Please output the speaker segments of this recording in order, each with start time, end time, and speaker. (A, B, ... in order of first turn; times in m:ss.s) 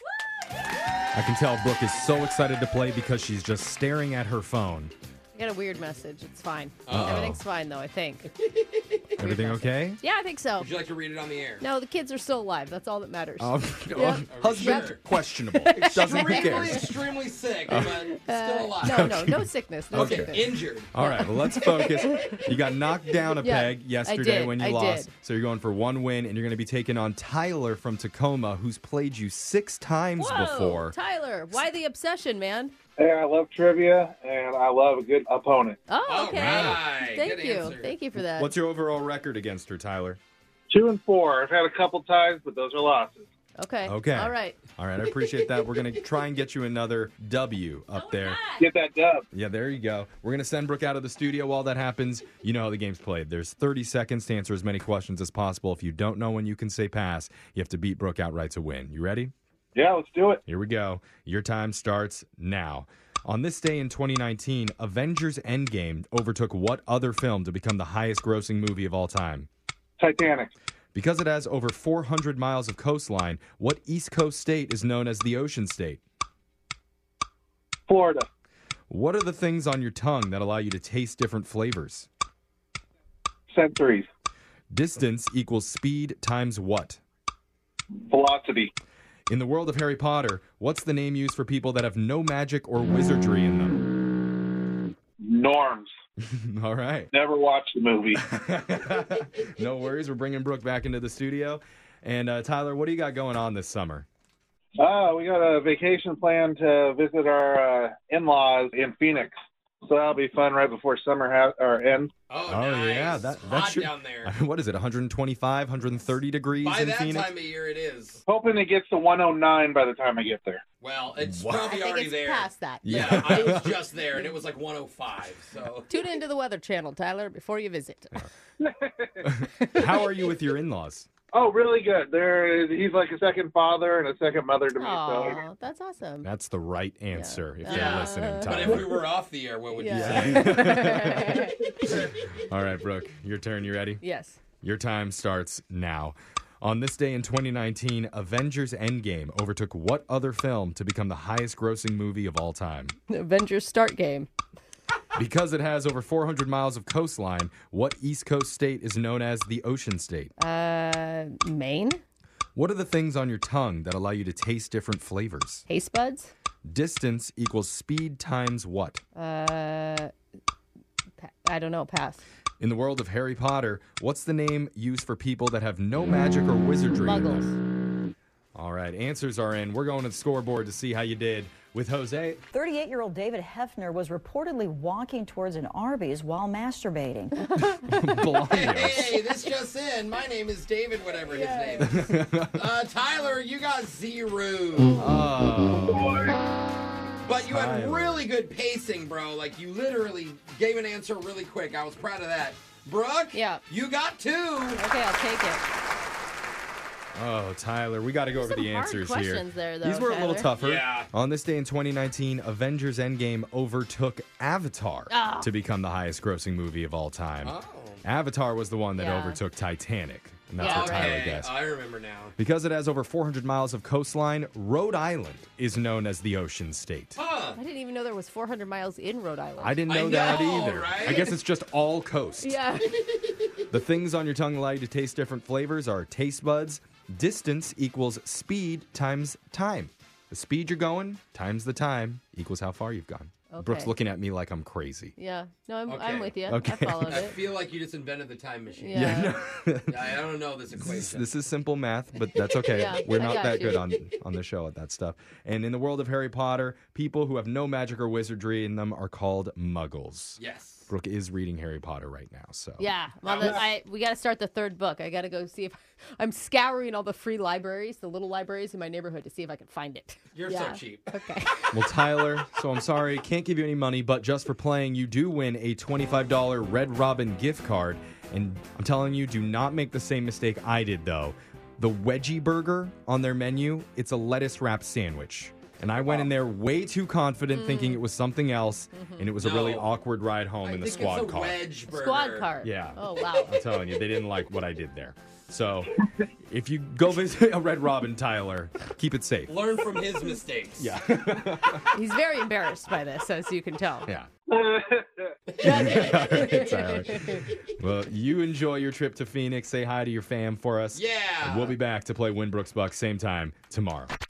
0:01.1-0:04.9 A
0:05.3-0:08.3 B
0:06.8-0:07.2 C
0:06.9-0:07.4 A
0:09.2-0:10.0 A
0:09.2-0:10.7 B
0:10.6-0:11.6 C
0:11.6-0:15.0 B
0:13.4-0:17.0 A
0:14.2-0:15.0 C
0:15.5-0:16.8 B
0:15.7-0:19.1 C
0:17.7-0:18.0 A
0:17.7-0:22.4 B
0:18.8-0:31.0 A
0:19.9-0:20.9 C
0:23.4-0:25.1 B
0:30.2-0:32.7 B
0:33.0-0:35.8 D
0:35.9-0:38.5 B
0:36.0-0:37.9 C
0:36.3-0:36.8 A
0:38.3-0:40.2 A
0:40.7-0:43.3 D
0:43.6-0:44.6 B
0:43.8-0:48.4 A
0:47.9-0:48.7 B
0:48.6-0:49.2 D
0:49.3-0:59.3 A
0:59.7-1:00.4 D
1:00.5-1:09.5 A
1:10.0-1:10.5 D
1:10.9-1:16.0 A
1:17.9-1:18.3 D
1:18.9-1:22.1 A
1:23.5-1:24.1 D
1:24.7-1:27.0 A
1:28.1-1:28.7 D
1:29.3-1:33.8 A
1:35.2-1:35.9 D
1:36.2-1:37.1 A
1:37.1-1:38.2 D
1:38.2-1:44.0 A
1:44.8-1:52.1 D
1:52.3-1:54.3 C
1:52.5-1:57.3 A
1:56.6-1:58.2 C
1:58.2-2:00.6 D
2:00.8-2:05.9 C
2:01.2-2:01.6 A
2:01.5-2:03.8 B
2:02.8-2:03.7 A
2:05.9-2:08.3 B
2:08.6-2:09.2 D
2:09.2-2:11.1 A
2:09.6-2:10.1 B
2:11.3-2:15.4 D
2:14.8-2:16.3 B
2:16.2-2:18.9 A
2:17.1-2:18.8 B
2:17.6-2:21.0 C
2:19.7-2:21.6 B
2:19.9-2:24.0 A
2:24.0-2:24.4 B
2:24.6-2:32.9 A
2:33.1-2:34.3 B
2:35.2-2:40.3 A
2:40.4-2:42.0 B
2:42.5-2:45.6 A
2:45.7-2:46.3 B
2:46.7-2:49.0 A
2:49.1-2:50.1 B
2:51.2-2:52.2 B
2:52.6-2:57.5 A
2:57.0-2:57.5 B
2:58.5-3:02.4 A
3:02.5-3:07.5 E
3:07.6-3:09.2 A
3:08.5-3:15.0 C
3:11.2-3:12.1 B
3:11.8-3:12.7 A
3:15.0-3:16.3 A
3:17.2-3:24.8 C
3:17.3-3:18.2 A
3:23.3-3:23.6 B
3:24.8-3:25.6 B
3:27.1-3:41.6 A
3:28.3-3:30.5 B
3:30.6-3:31.1 C
3:35.1-3:35.5 B
3:37.4-3:38.0 C
3:39.0-3:39.4 B
3:40.6-3:42.3 C
3:40.6-3:41.2 B
3:42.4-3:47.2 A
3:47.2-3:47.6 C
3:47.5-3:49.8 B
3:49.6-3:52.6 A
3:49.9-3:51.3 C
3:52.4-3:53.3 B
3:53.7-4:05.1 A
4:03.5-4:03.9 B
4:05.2-4:07.3 B
4:05.9-4:06.4 C
4:06.5-4:07.3 A
4:07.1-4:09.2 C
4:08.8-4:09.4 B
4:08.9-4:10.2 A
4:09.9-4:11.3 C
4:10.7-4:22.9 A
4:12.6-4:13.8 B
4:20.4-4:20.9 C
4:22.8-4:31.8 B
4:23.2-4:23.6 C
4:30.3-4:31.2 C
4:31.7-4:51.6 A
4:47.5-4:48.0 B
4:48.9-4:49.3 B
4:49.4-4:49.9 C
4:50.7-4:52.5 C
4:50.9-4:51.3 B
4:51.9-4:53.6 B
4:52.6-4:59.6 A
4:59.4-5:01.0 C
5:00.8-5:01.8 A
5:01.9-5:04.1 B
5:04.5-5:05.3 D
5:05.6-5:07.4 B
5:05.6-5:14.1 A
5:05.7-5:06.0 C
5:10.9-5:11.8 C